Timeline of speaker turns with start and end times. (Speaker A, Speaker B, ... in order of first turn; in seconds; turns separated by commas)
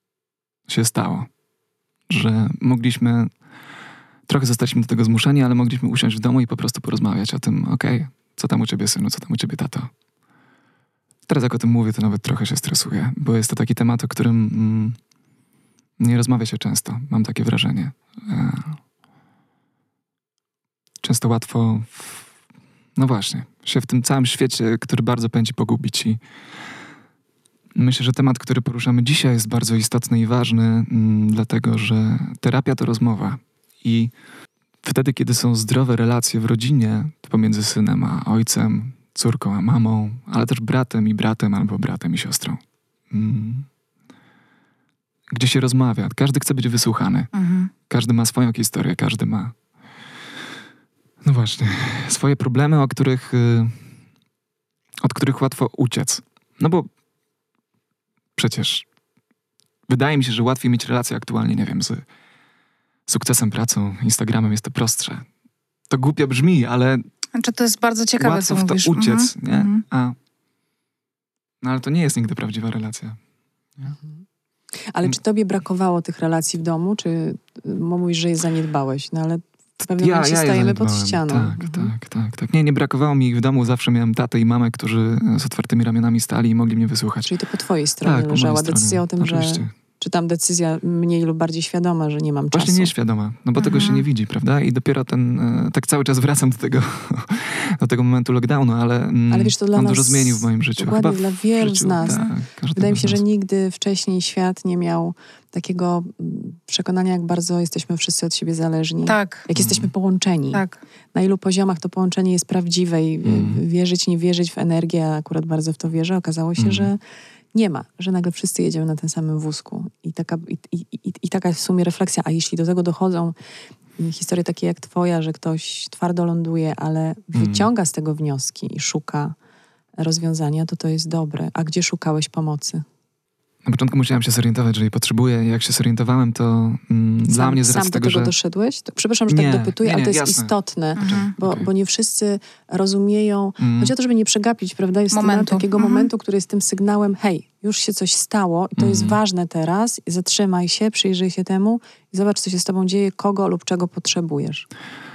Speaker A: 0.7-1.3, Speaker A: 2.1-3.3, Speaker A: 4.3-9.9, Speaker A: 11.3-15.0, Speaker A: 16.0-18.8, Speaker A: 21.0-22.3, Speaker A: 22.9-26.2, Speaker A: 27.7-34.1, Speaker A: 34.8-43.7, Speaker A: 45.3-47.3, Speaker B: 47.3-47.7, Speaker A: 47.9-49.5, Speaker A: 51.2-53.9, Speaker A: 55.0-56.9, Speaker A: 58.4-58.8, Speaker A: 59.9-62.0, Speaker A: 63.1-65.2, Speaker A: 65.9-67.1, Speaker B: 67.3-69.8, Speaker A: 68.2-70.2, Speaker A: 71.6-73.2, Speaker C: 74.9-81.9, Speaker A: 79.9-87.3, Speaker C: 87.2-92.9, Speaker A: 88.0-89.7, Speaker A: 92.5-103.2, Speaker B: 93.6-94.0, Speaker C: 99.3-117.0, Speaker B: 102.0-102.3, Speaker B: 109.0-109.5, Speaker A: 109.5-109.9, Speaker B: 110.5-110.8, Speaker A: 113.2-113.6, Speaker A: 116.6-116.9, Speaker C: 117.5-123.3, Speaker C: 124.0-129.3, Speaker A: 127.3-127.7, Speaker C: 130.0-132.8, Speaker A: 133.6-138.3, Speaker C: 137.3-154.7, Speaker A: 139.3-141.7, Speaker B: 140.9-141.3, Speaker A: 143.6-143.9, Speaker B: 145.1-146.1, Speaker A: 148.8-149.2